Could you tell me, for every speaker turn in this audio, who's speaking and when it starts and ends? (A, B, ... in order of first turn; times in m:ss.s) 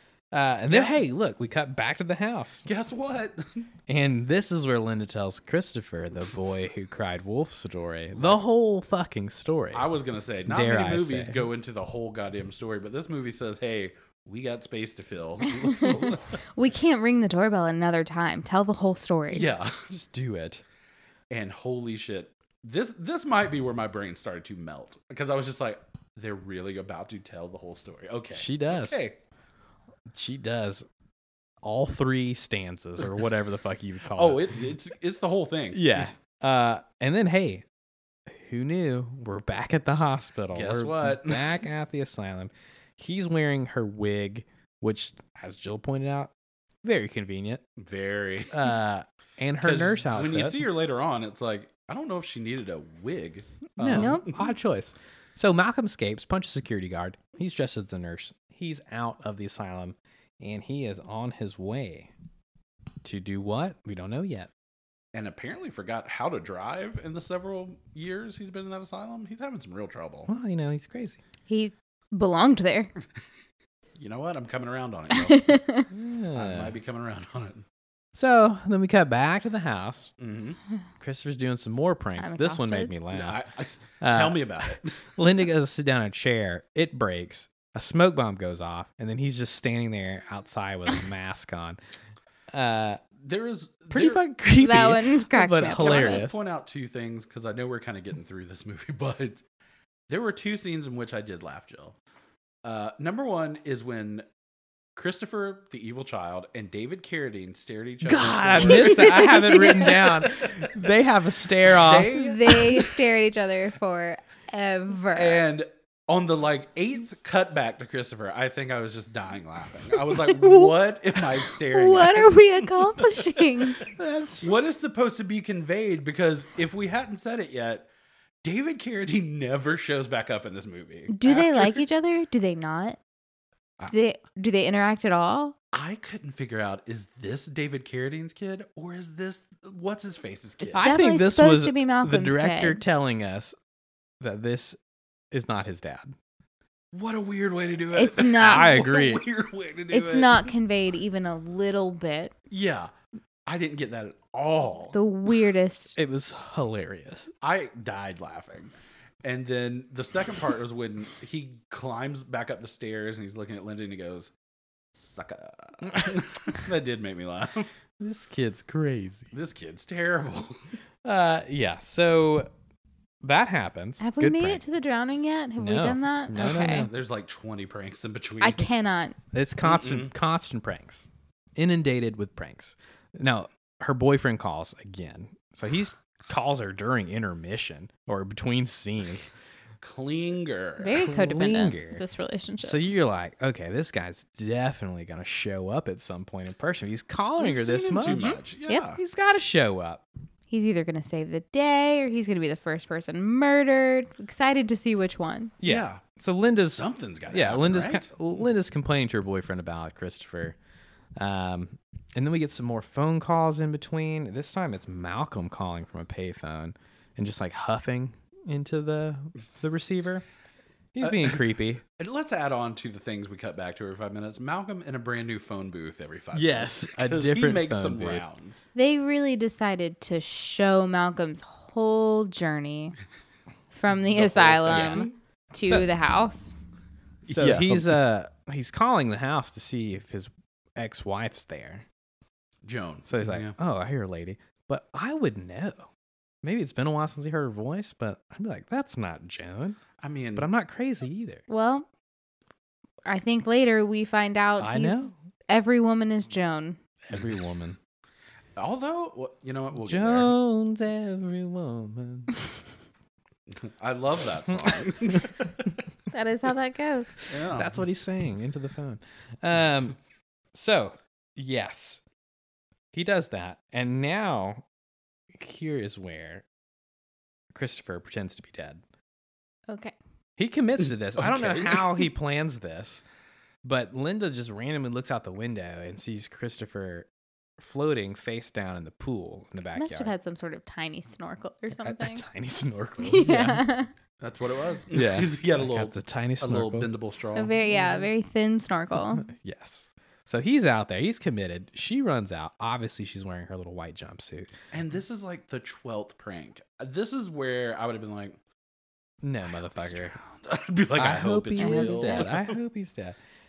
0:00.3-0:02.7 A
0:00.7-0:01.0 B
0:02.7-0:03.7 B
0:03.9-0:09.9 A
0:08.2-0:08.4 B
0:09.7-0:16.4 B
0:10.5-0:11.4 A
0:15.4-0:19.5 C
0:19.3-0:20.0 B
0:19.9-0:20.6 A
0:21.3-0:29.2 B
0:28.3-0:29.0 A
0:30.1-0:30.9 A
0:31.6-0:34.6 A
0:34.1-0:36.1 B
0:35.7-0:37.6 A
0:38.3-0:46.3 A
0:40.5-0:41.5 B
0:46.8-0:47.6 A
0:47.8-0:48.6 B
0:48.5-0:50.6 A
0:49.6-0:54.4 B
0:53.8-1:02.1 A
0:53.8-0:54.5 C
1:03.0-1:04.5 A
1:05.1-1:10.3 B
1:10.3-1:11.2 A
1:11.5-1:12.9 C
1:14.0-1:15.6 B
1:15.1-1:15.9 C
1:15.9-1:16.8 A
1:16.4-1:17.6 B
1:18.1-1:20.1 A
1:20.2-1:20.6 B
1:21.0-1:23.4 A
1:22.2-1:22.9 C
1:23.1-1:25.1 B
1:24.0-1:31.8 A
1:32.5-1:33.0 A
1:33.2-1:34.2 B
1:33.9-1:36.4 A
1:34.5-1:36.3 C
1:35.7-1:39.4 B
1:40.1-1:42.0 B
1:42.6-1:44.2 B
1:45.0-1:50.7 B
1:48.0-1:52.2 A
1:48.7-1:50.0 C
1:51.7-1:53.0 B
1:52.1-1:55.4 C
1:55.1-2:07.9 B
2:00.1-2:00.8 C
2:01.3-2:03.9 C
2:08.4-2:11.8 B
2:11.1-2:13.0 C
2:13.9-2:15.6 C
2:15.7-2:20.9 B
2:20.7-2:23.6 A
2:20.8-2:22.8 C
2:24.2-2:24.8 A
2:25.3-2:26.2 A
2:26.9-2:30.5 B
2:27.9-2:28.9 C
2:28.3-2:29.2 A
2:29.9-2:32.3 C
2:32.5-2:32.9 B
2:33.5-2:35.0 B
2:34.9-2:36.0 C
2:36.0-2:37.3 A
2:37.4-2:38.7 B
2:39.2-2:44.3 B
2:45.0-2:47.7 B
2:48.0-2:49.3 A
2:49.3-2:50.7 B
2:51.0-2:52.5 A
2:53.2-2:54.6 A
2:54.0-2:56.9 C
2:55.6-2:56.9 A
2:56.4-2:58.7 B
2:58.4-2:59.2 C
2:59.3-3:09.3 A
2:59.6-3:00.1 B
3:09.8-3:11.0 B
3:10.8-3:12.8 C
3:11.0-3:12.0 A
3:12.6-3:18.4 A
3:17.4-3:19.0 B
3:18.1-3:18.9 C
3:19.0-3:20.0 A
3:20.5-3:25.5 C
3:25.6-3:30.6 A
3:25.6-3:26.0 B
3:26.8-3:28.2 B
3:31.2-3:40.2 A
3:40.9-3:41.8 A
3:41.0-3:41.4 B
3:42.0-3:48.7 B
3:46.3-3:48.2 A
3:48.8-3:53.0 C
3:53.7-3:56.6 C
3:54.0-3:55.1 B
3:54.7-3:55.0 A
3:55.6-3:55.9 A
3:57.2-3:58.0 B
3:57.3-4:01.8 A
4:02.6-4:03.6 B
4:03.1-4:05.9 A
4:06.4-4:09.8 A
4:10.0-4:10.5 B
4:10.4-4:11.4 A
4:11.5-4:11.9 C
4:13.1-4:16.8 C
4:14.6-4:15.1 A
4:17.1-4:17.8 A
4:18.6-4:20.3 B
4:19.8-4:22.4 A
4:23.6-4:25.7 B
4:24.5-4:25.4 A
4:26.1-4:27.2 C
4:27.3-4:27.8 B
4:27.3-4:30.0 A
4:30.5-4:32.0 A
4:32.9-4:34.6 A
4:35.3-4:36.4 A
4:37.5-4:38.8 A
4:39.7-4:40.0 C
4:40.4-4:43.0 A
4:41.2-4:42.0 B
4:43.6-4:47.1 A
4:47.6-4:50.1 A
4:49.8-4:52.2 C
4:51.8-4:53.7 A
4:53.0-4:53.9 C
4:54.2-4:57.6 B
4:54.9-4:56.9 A
4:57.4-4:59.3 C
4:57.7-4:58.1 A
4:59.2-5:04.5 A
5:04.7-5:08.4 B
5:09.2-5:10.2 A
5:09.6-5:12.6 B
5:11.0-5:13.2 A
5:11.6-5:12.3 C